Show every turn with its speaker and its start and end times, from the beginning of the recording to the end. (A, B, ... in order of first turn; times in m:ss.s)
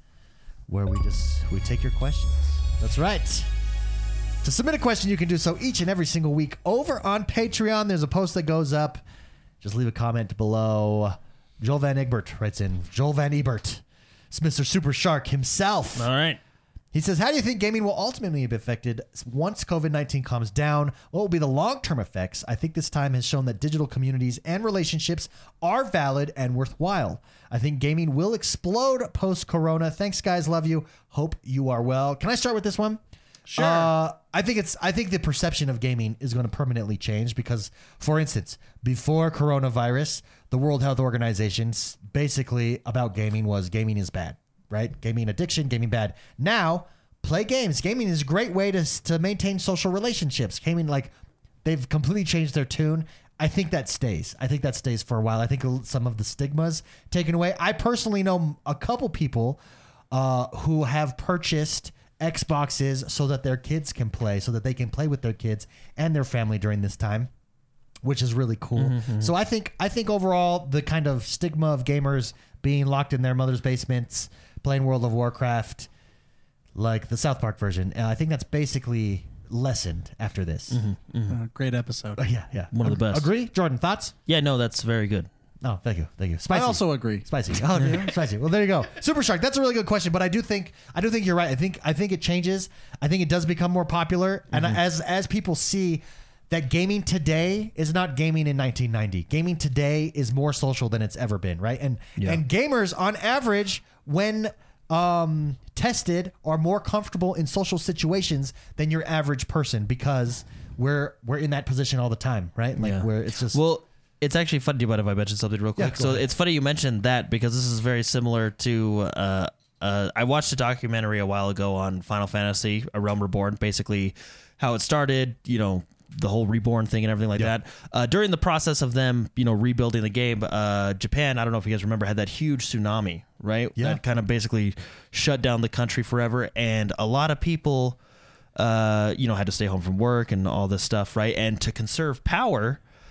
0:00.7-0:03.5 A
0:04.4-0:09.0 A
0:09.6-0:16.1 A
0:16.0-0:16.4 B
0:16.9-0:33.0 A
0:33.5-0:33.9 C
0:33.5-0:51.1 A
0:51.6-0:59.6 A
1:00.1-1:07.3 A
1:08.0-1:15.9 A
1:08.8-1:09.3 B
1:16.7-1:20.8 A
1:20.7-1:21.4 B
1:21.3-1:22.2 C
1:22.2-1:24.1 A
1:22.7-1:23.3 B
1:24.2-1:25.3 B
1:25.6-1:53.6 A
1:26.5-1:28.1 C
1:34.5-1:34.8 B
1:52.8-2:18.0 B
1:55.8-1:56.2 A
2:13.8-2:14.0 A
2:18.6-2:22.8 B